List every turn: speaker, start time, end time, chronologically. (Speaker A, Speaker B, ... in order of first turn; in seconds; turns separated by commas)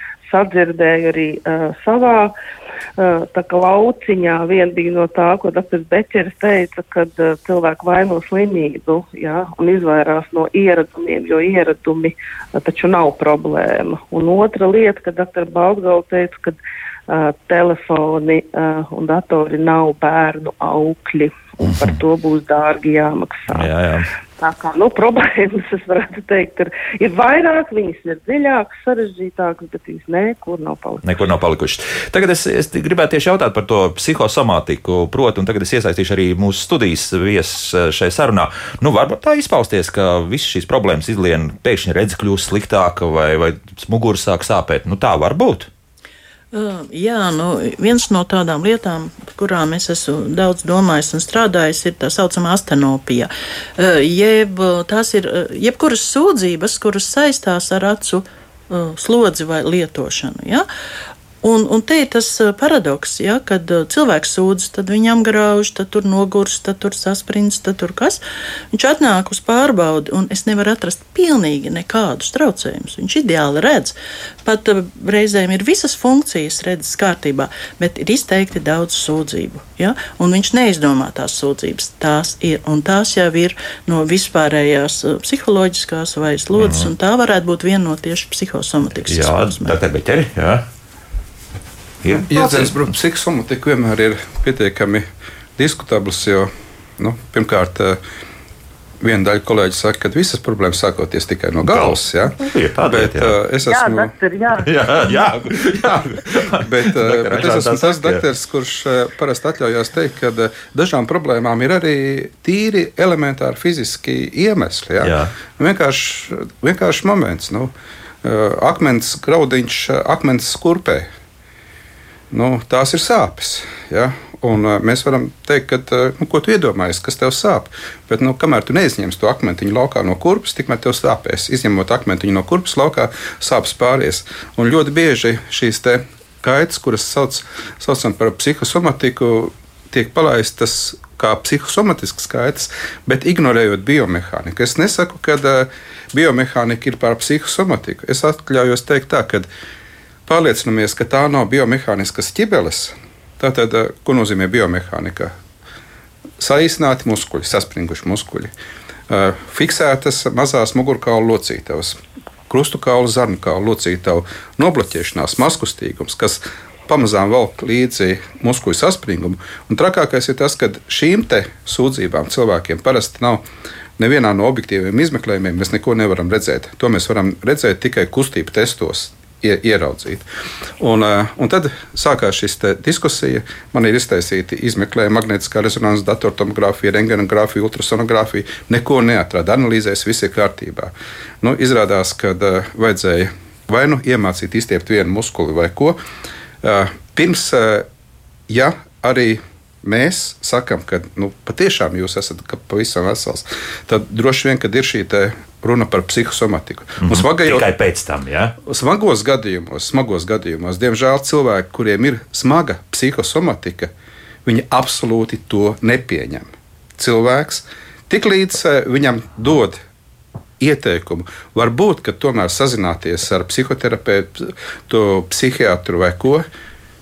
Speaker A: 0.2-2.3, Speaker A: 3.0-23.7, Speaker B: 21.6-22.0, Speaker B: 23.5-24.1, Speaker A: 24.4-31.0, Speaker B: 31.0-45.7, Speaker C: 46.5-60.6, Speaker C: 61.4-68.2, Speaker C: 68.7-89.8, Speaker B: 86.5-86.9, Speaker B: 89.1-90.7, Speaker B: 92.0-92.7, Speaker D: 92.3-95.0, Speaker D: 95.6-98.0, Speaker D: 99.0-104.1, Speaker B: 101.6-103.4, Speaker A: 103.6-104.7, Speaker B: 104.6-108.2, Speaker D: 105.1-117.7, Speaker B: 115.0-115.3, Speaker D: 118.2-121.1, Speaker D: 122.3-149.5, Speaker D: 150.3-155.3, Speaker D: 156.4-158.5, Speaker D: 159.1-162.0, Speaker D: 162.5-173.4, Speaker D: 174.0-180.2, Speaker D: 180.8-196.0, Speaker D: 196.6-197.8, Speaker D: 198.5-207.7, Speaker B: 207.0-208.5, Speaker D: 208.6-213.9, Speaker D: 214.4-219.8, Speaker D: 220.6-226.4